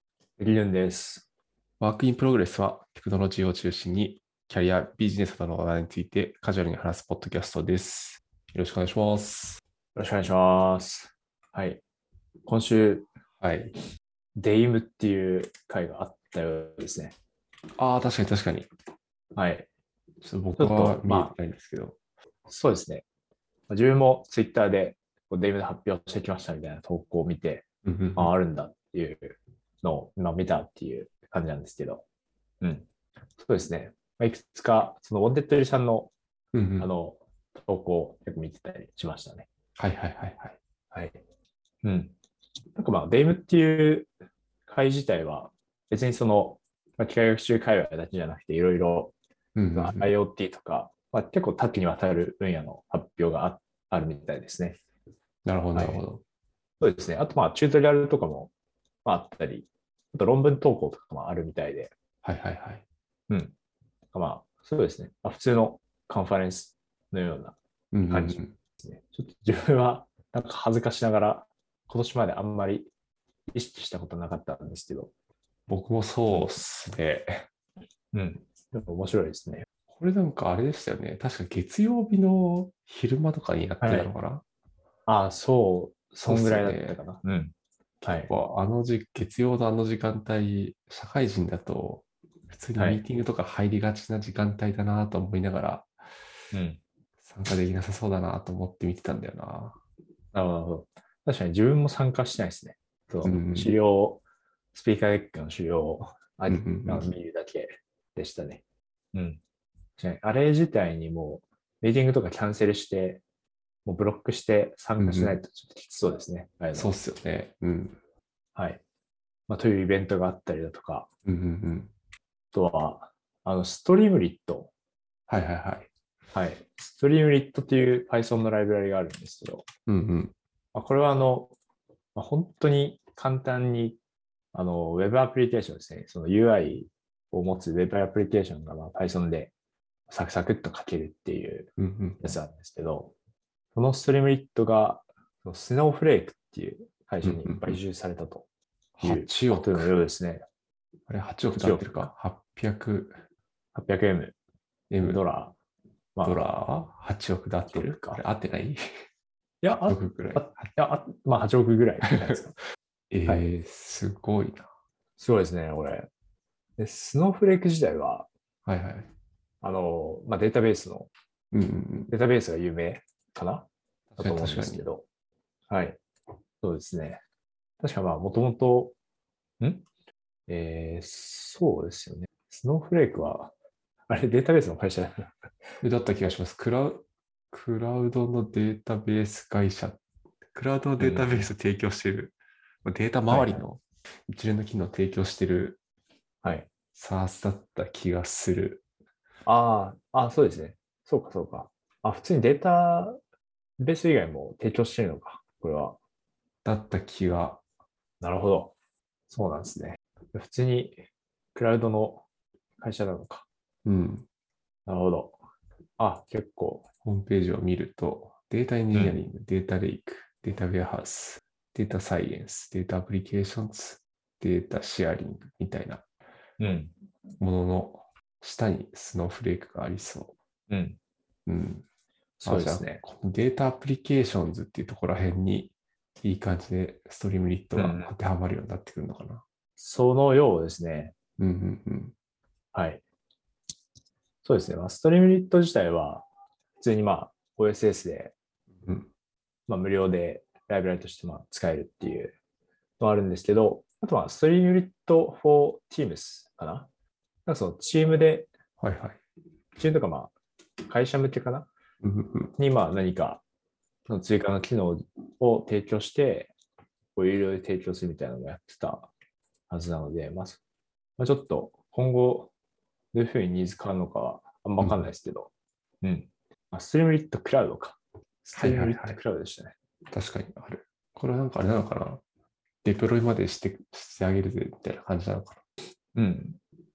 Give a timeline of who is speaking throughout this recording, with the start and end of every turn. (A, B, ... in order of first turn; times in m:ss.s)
0:00.4-0:01.3 A
0:01.8-0:09.6 B
0:10.0-0:11.8 A
0:12.5-0:13.1 A
0:13.4-0:13.7 B
0:14.4-0:17.1 A
0:17.8-0:18.7 B
0:19.4-0:19.7 A
0:20.2-0:22.0 B
0:20.6-0:21.3 A
0:22.5-0:23.0 A
0:23.7-0:32.0 A
0:27.8-0:28.3 B
0:32.6-0:32.9 A
0:33.4-0:36.1 A
0:36.5-0:36.9 B
0:36.8-0:39.5 A
0:39.8-0:40.6 B
0:40.9-0:41.2 A
0:41.8-0:42.1 A
0:42.8-0:44.1 A
0:44.7-0:49.1 A
0:49.6-0:50.1 B
0:49.8-0:54.8 A
0:55.4-0:56.2 B
0:55.7-0:56.0 A
0:56.8-0:58.5 A
0:59.0-1:01.9 A
1:02.2-1:02.8 B
1:03.3-1:03.5 A
1:04.1-1:07.6 A
1:07.9-1:08.6 B
1:08.1-1:12.9 A
1:13.5-1:15.1 A
1:15.7-1:17.5 B
1:18.1-1:19.7 A
1:19.9-1:24.4 B
1:23.8-1:24.1 A
1:25.1-1:27.5 A
1:26.2-1:27.0 B
1:28.0-1:35.9 B
1:28.0-1:28.3 A
1:32.8-1:33.0 A
1:36.5-1:36.8 A
1:37.2-1:39.8 B
1:40.3-1:44.2 A
1:43.2-1:43.7 B
1:44.7-1:48.6 A
1:46.5-1:47.1 B
1:49.1-1:49.4 A
1:50.0-1:53.2 A
1:53.8-1:56.9 A
1:55.0-1:55.4 B
1:56.7-1:58.0 B
1:58.6-1:58.8 A
1:59.5-2:01.1 A
2:01.3-2:01.9 B
2:02.5-2:04.7 A
2:05.3-2:05.9 B
2:06.3-2:09.6 A
2:09.9-2:10.3 B
2:10.7-2:11.5 A
2:12.2-2:14.0 A
2:14.5-2:19.5 A
2:20.1-2:23.1 A
2:21.8-2:22.4 B
2:23.7-2:28.4 A
2:27.2-2:27.8 B
2:29.0-2:29.9 B
2:29.0-2:30.4 A
2:31.1-2:33.2 B
2:31.6-2:32.1 A
2:33.7-2:34.4 A
2:34.9-2:35.2 B
2:35.0-2:35.6 A
2:36.2-2:36.5 A
2:36.2-2:38.8 B
2:37.7-2:38.2 A
2:39.6-2:42.6 A
2:39.9-2:40.7 B
2:43.1-2:44.7 B
2:45.2-2:46.1 A
2:46.8-2:48.3 A
2:48.7-2:49.1 B
2:49.6-2:51.1 A
2:51.5-2:52.1 B
2:52.1-2:53.7 A
2:54.1-2:54.8 B
2:54.2-2:55.0 A
2:55.7-2:56.0 A
2:56.6-2:57.2 A
2:57.8-2:59.0 A
2:59.6-2:59.8 A
3:00.5-3:03.5 A
3:04.1-3:05.3 A
3:05.8-3:10.0 B
3:10.5-3:15.8 B
3:11.0-3:11.5 A
3:13.3-3:13.6 A
3:16.4-3:16.7 A
3:16.9-3:18.8 B
3:19.4-3:23.2 A
3:23.8-3:26.0 A
3:26.6-3:27.6 B
3:28.2-3:28.7 A
3:29.3-3:31.0 A
3:31.6-3:32.2 A
3:32.8-3:33.5 A
3:33.8-3:34.3 B
3:34.9-3:35.4 A
3:36.0-3:36.9 A
3:37.0-3:46.0 B
3:38.9-3:39.2 A
3:46.6-3:46.9 A
3:47.4-3:50.3 B
3:50.7-3:51.0 A
3:51.5-3:51.8 B
3:52.4-3:53.0 A
3:52.4-3:59.4 B
3:57.8-3:58.1 A
3:59.8-4:01.1 A
4:01.4-4:02.1 B
4:02.7-4:03.0 A
4:04.4-4:06.2 A
4:06.8-4:08.3 A
4:08.8-4:09.1 B
4:09.7-4:12.4 A
4:13.0-4:16.9 A
4:17.5-4:18.5 A
4:18.8-4:19.2 B
4:19.8-4:20.3 A
4:20.9-4:21.7 A
4:22.0-4:22.5 B
4:22.6-4:23.4 A
4:24.1-4:26.5 A
4:27.2-4:29.1 A
4:29.7-4:30.6 A
4:31.2-4:32.5 A
4:33.1-4:35.5 A
4:34.8-4:35.1 B
4:36.0-4:39.7 A
4:38.6-4:39.2 B
4:40.1-4:42.2 B
4:42.8-4:45.6 B
4:46.2-4:46.6 A